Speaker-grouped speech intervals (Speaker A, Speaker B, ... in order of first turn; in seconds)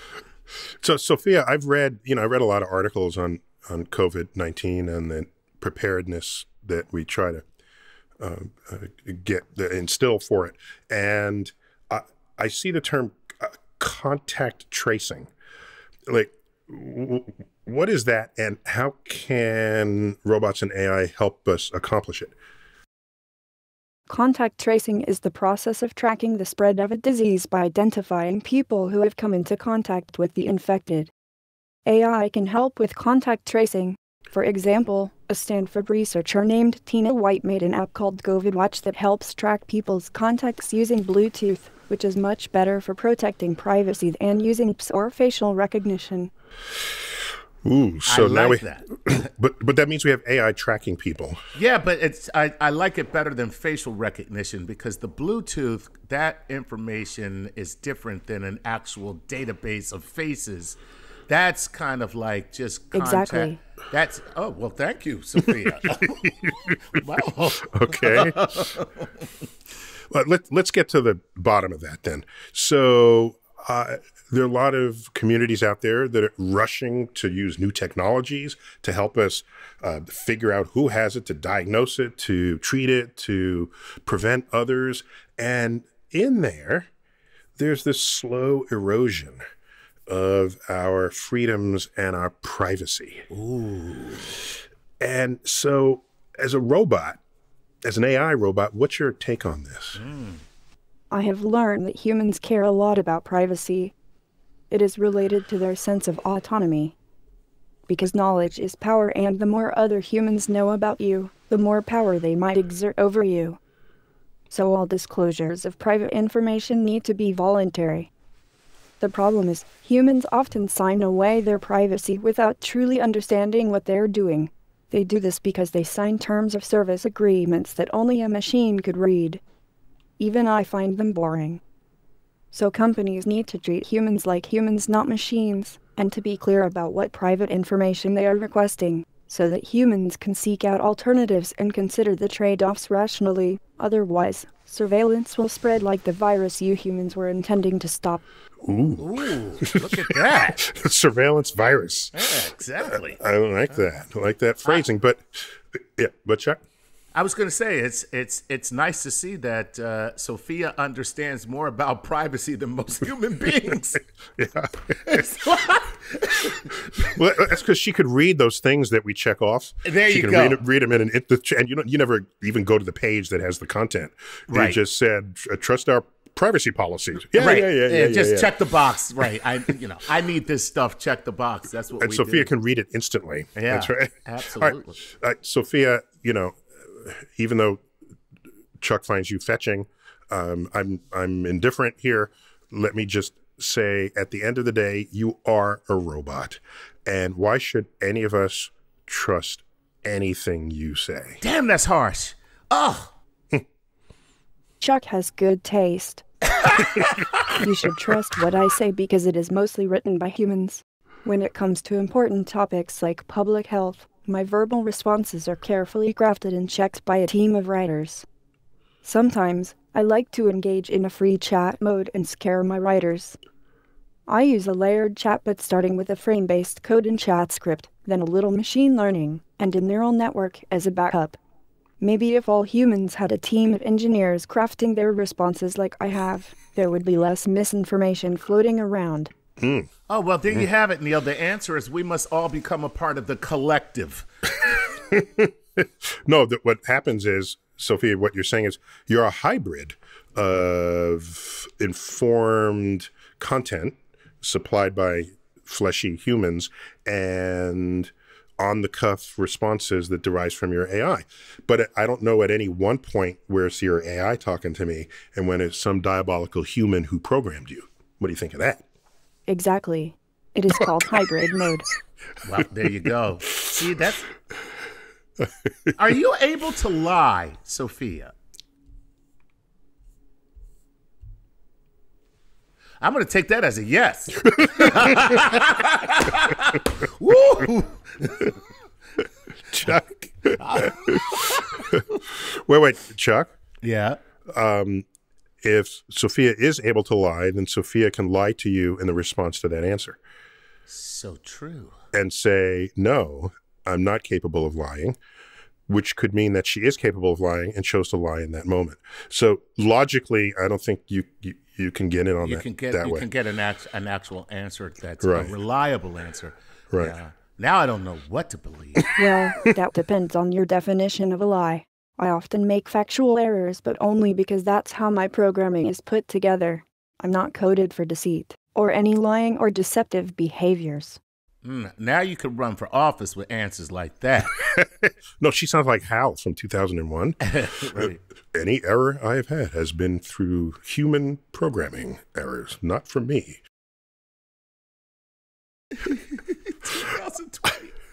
Speaker A: 0.8-7.4, 8.2-15.3, 16.1-22.3, 47.6-51.4, 65.9-67.0, 67.6-68.8, 70.1-86.9, 87.6-89.4, 90.1-93.2, 95.0-97.2, 97.8-100.0, 148.6-152.3, 152.9-156.6, 164.4-164.9, 167.0-178.5, 182.0-187.8, 188.8-201.4, 239.6-239.9, 244.6-268.8, 284.6-285.0, 289.7-293.5, 294.5-295.1, 295.6-300.2, 302.1-305.2, 305.9-313.3, 315.2-315.5, 334.6-343.6
Speaker B: 24.1-31.1, 31.9-46.3, 62.9-63.6, 101.1-103.9, 104.7-106.9, 107.9-113.6, 114.5-118.1, 119.0-129.4, 130.2-131.6, 132.5-148.2, 204.8-206.7, 207.5-218.2, 219.0-223.4, 224.3-231.4, 232.0-239.3, 269.5-271.9, 319.1-331.2
Speaker C: 48.0-48.9, 51.5-60.8, 61.3-66.3, 66.8-69.0, 93.3-94.3, 100.0-100.4, 149.0-150.6, 152.1-153.2, 157.1-164.0, 165.0-167.1, 169.8-170.6, 174.5-174.8, 177.3-182.5, 183.6-185.0, 201.4-203.1, 240.1-244.3, 272.4-274.3, 276.0-278.3, 283.0-288.6, 290.6-291.8, 293.8-294.2, 300.9-301.9, 312.4-319.1, 331.6-334.5, 337.4-338.2, 346.0-347.9